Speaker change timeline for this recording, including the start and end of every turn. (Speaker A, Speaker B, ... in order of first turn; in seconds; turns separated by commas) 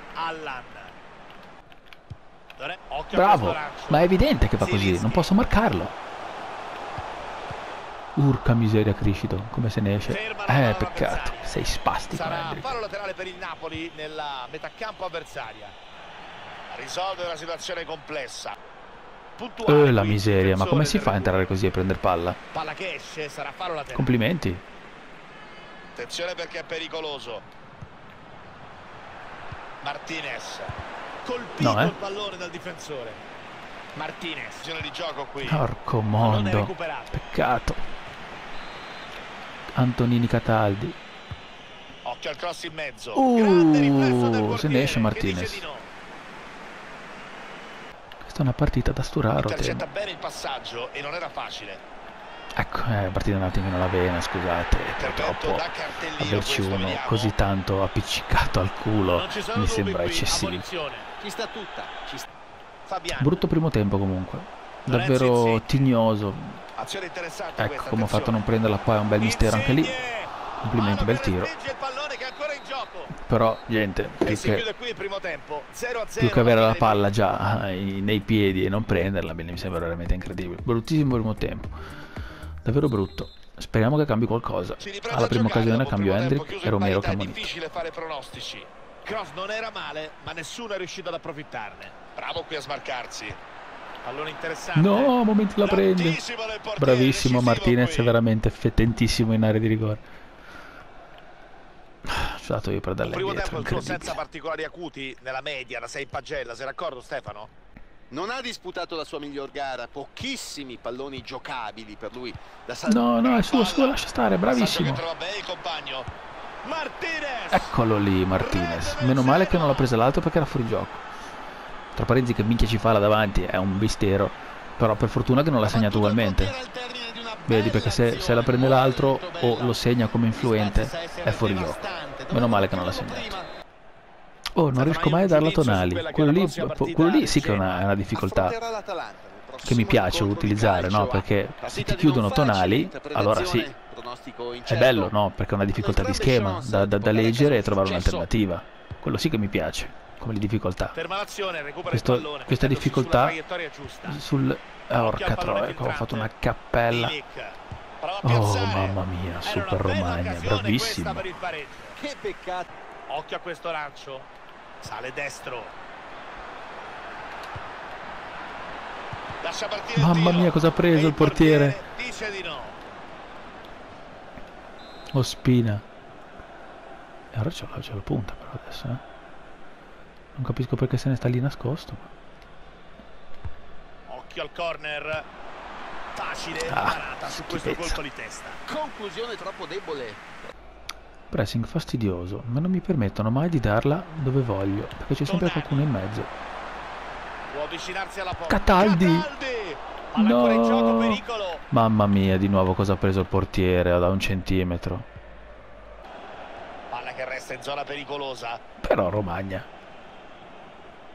Speaker A: 0.1-0.9, Speaker A: 2.6-5.3, Speaker B: 3.1-5.9, Speaker B: 8.2-12.8, Speaker A: 10.1-11.6, Speaker A: 12.1-15.8, Speaker A: 16.7-18.5, Speaker A: 19.4-21.5, Speaker B: 19.6-22.4, Speaker A: 22.5-24.1, Speaker B: 23.9-24.6, Speaker A: 25.9-27.4, Speaker A: 29.8-33.2, Speaker B: 31.6-31.9, Speaker A: 33.9-35.6, Speaker B: 35.4-37.8, Speaker A: 36.2-37.2, Speaker B: 39.7-41.0, Speaker A: 42.0-45.9, Speaker B: 43.1-45.6, Speaker B: 48.2-49.8, Speaker A: 49.4-51.8, Speaker B: 52.5-60.6, Speaker A: 54.8-57.4, Speaker A: 59.1-61.1, Speaker C: 61.2-62.3, Speaker A: 62.9-63.4, Speaker B: 63.1-66.6, Speaker A: 64.9-65.8, Speaker A: 66.8-68.4, Speaker B: 67.6-69.9, Speaker A: 69.2-73.1, Speaker B: 70.6-71.5, Speaker B: 73.1-74.7, Speaker A: 74.2-77.0, Speaker B: 76.2-81.8, Speaker B: 82.6-87.5, Speaker A: 84.8-93.4, Speaker A: 94.0-98.1, Speaker B: 94.8-96.2, Speaker B: 96.8-100.0, Speaker B: 102.0-104.2, Speaker A: 103.0-107.5, Speaker C: 108.1-113.1, Speaker B: 112.9-115.0, Speaker A: 113.2-116.1, Speaker A: 116.6-117.8, Speaker B: 117.5-121.0, Speaker A: 118.3-119.9, Speaker B: 121.9-126.5, Speaker C: 125.7-133.5, Speaker B: 127.5-133.4, Speaker B: 134.5-138.6, Speaker A: 134.7-137.8, Speaker C: 138.1-145.1, Speaker B: 139.6-143.7, Speaker B: 144.7-151.0, Speaker C: 145.7-148.3, Speaker A: 150.9-154.2, Speaker B: 151.9-153.4, Speaker B: 154.1-157.2, Speaker A: 154.9-156.3, Speaker A: 156.9-162.0, Speaker B: 158.2-161.3, Speaker C: 162.0-162.7, Speaker A: 163.1-164.3, Speaker A: 164.8-165.7, Speaker A: 169.4-172.8, Speaker B: 169.9-171.8, Speaker B: 175.1-175.8, Speaker B: 177.3-179.0, Speaker B: 180.3-182.1, Speaker A: 184.1-185.3, Speaker A: 186.1-188.6, Speaker B: 186.7-188.0, Speaker C: 188.7-190.2, Speaker B: 191.3-196.3, Speaker A: 195.2-195.9, Speaker A: 197.5-201.6, Speaker B: 198.5-199.3, Speaker B: 200.1-205.1, Speaker A: 206.9-208.6, Speaker B: 208.8-209.7